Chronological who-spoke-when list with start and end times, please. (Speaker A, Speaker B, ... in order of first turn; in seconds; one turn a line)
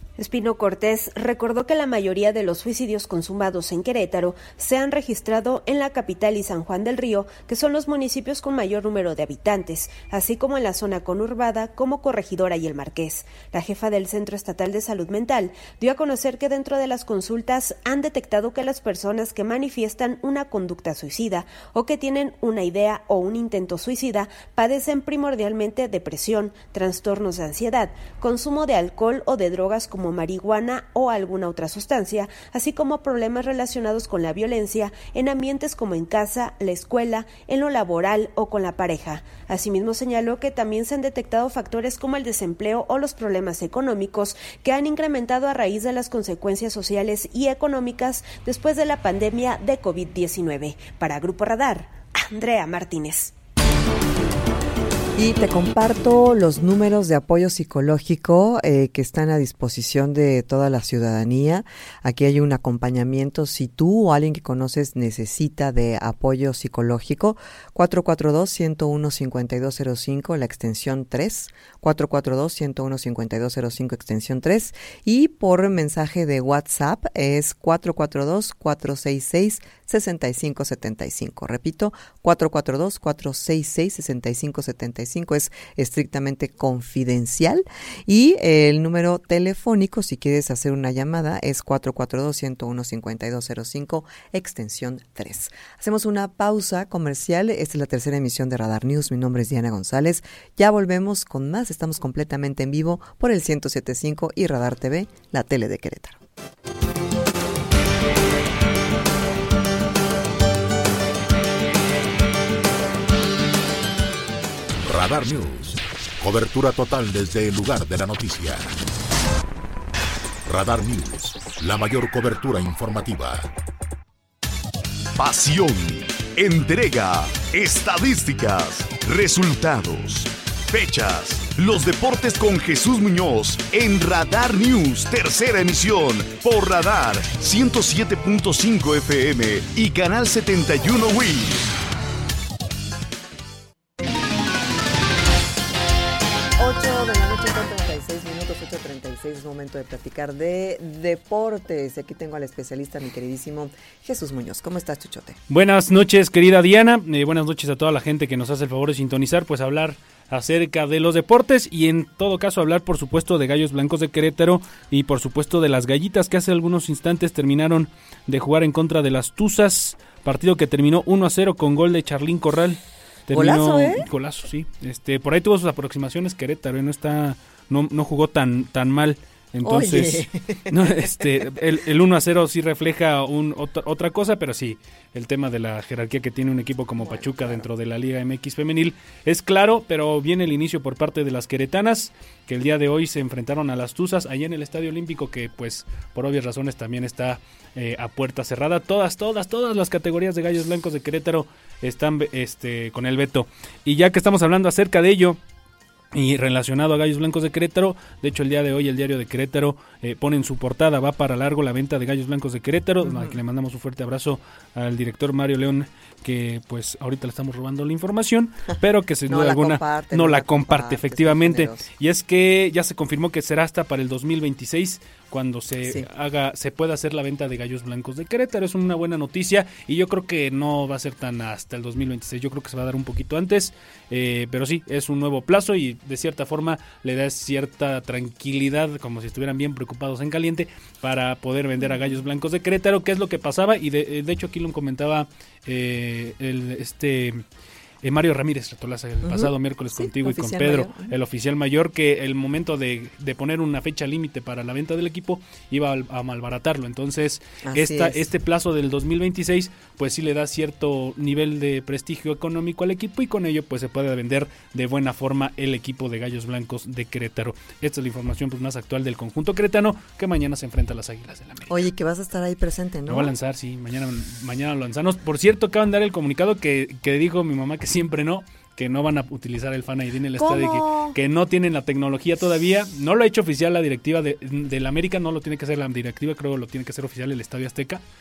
Speaker A: 0.2-53.3
Speaker B: 55.2-106.2
Speaker C: 114.8-118.7
Speaker C: 120.5-123.5
Speaker D: 125.2-141.7
Speaker B: 146.6-155.4
Speaker E: 155.5-205.4
Speaker B: 173.3-174.0
Speaker B: 179.6-180.7
Speaker B: 187.0-187.7
Speaker E: 206.1-247.4
Speaker B: 213.0-213.3
Speaker B: 219.3-221.9
Speaker E: 248.0-271.8
Speaker B: 249.2-251.1
Speaker B: 257.6-258.2
Speaker B: 271.7-273.3
Speaker E: 273.1-288.0
Speaker B: 280.4-281.2